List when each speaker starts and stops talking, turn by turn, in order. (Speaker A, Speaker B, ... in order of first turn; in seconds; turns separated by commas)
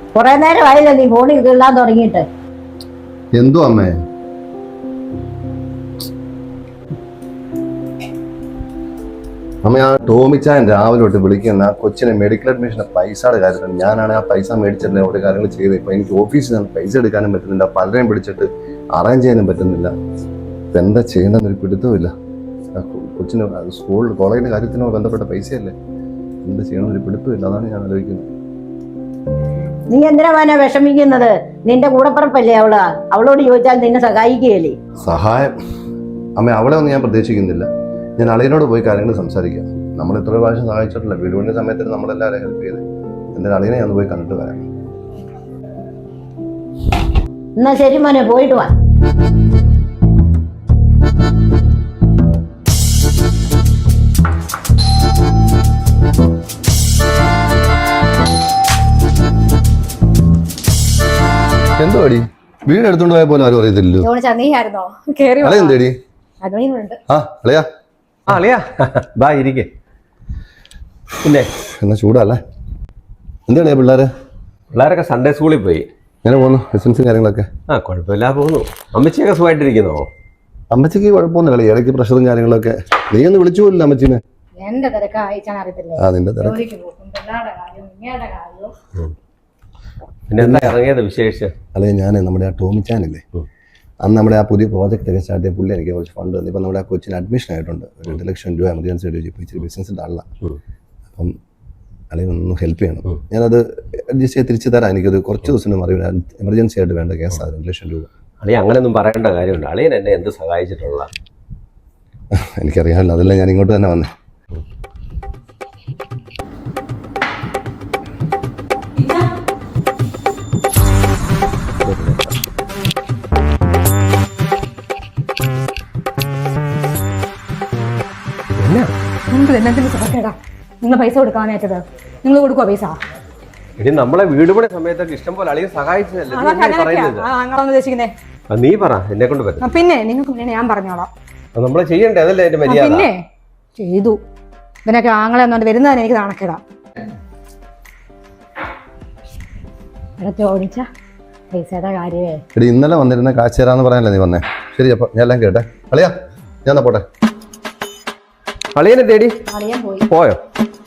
Speaker A: 0.1-2.3, Speaker B: 3.4-3.9, Speaker B: 9.7-19.9, Speaker B: 20.7-22.1, Speaker B: 22.8-25.7, Speaker B: 26.4-28.3, Speaker A: 29.9-34.8, Speaker B: 35.0-35.5, Speaker B: 36.4-37.7, Speaker B: 38.2-42.8, Speaker B: 43.3-44.7, Speaker A: 47.6-48.7, Speaker B: 61.8-64.1, Speaker C: 64.0-65.8, Speaker B: 65.4-65.9, Speaker C: 66.4-67.0, Speaker B: 67.1-67.7, Speaker D: 68.3-69.7, Speaker D: 71.2-71.5, Speaker B: 71.8-72.4, Speaker B: 73.5-74.1, Speaker D: 74.7-75.9, Speaker B: 76.2-77.5, Speaker D: 77.7-80.1, Speaker B: 80.7-84.2, Speaker C: 84.6-88.7, Speaker B: 86.0-86.6, Speaker D: 90.3-91.5, Speaker B: 90.4-90.8, Speaker B: 91.8-93.2, Speaker B: 94.0-100.3, Speaker B: 102.1-108.1, Speaker D: 108.4-111.1, Speaker B: 112.3-114.1, Speaker D: 121.8-122.3, Speaker D: 128.6-128.9, Speaker C: 129.3-133.0, Speaker D: 133.8-137.3, Speaker C: 136.3-138.1, Speaker D: 138.5-139.6, Speaker C: 139.6-141.1, Speaker D: 141.6-143.1, Speaker C: 142.7-143.2, Speaker C: 143.8-144.2, Speaker C: 144.9-146.6, Speaker C: 150.2-150.9, Speaker C: 151.5-152.4, Speaker B: 152.6-156.1, Speaker B: 156.7-157.0, Speaker D: 158.8-159.3, Speaker C: 159.5-160.1, Speaker D: 160.1-160.4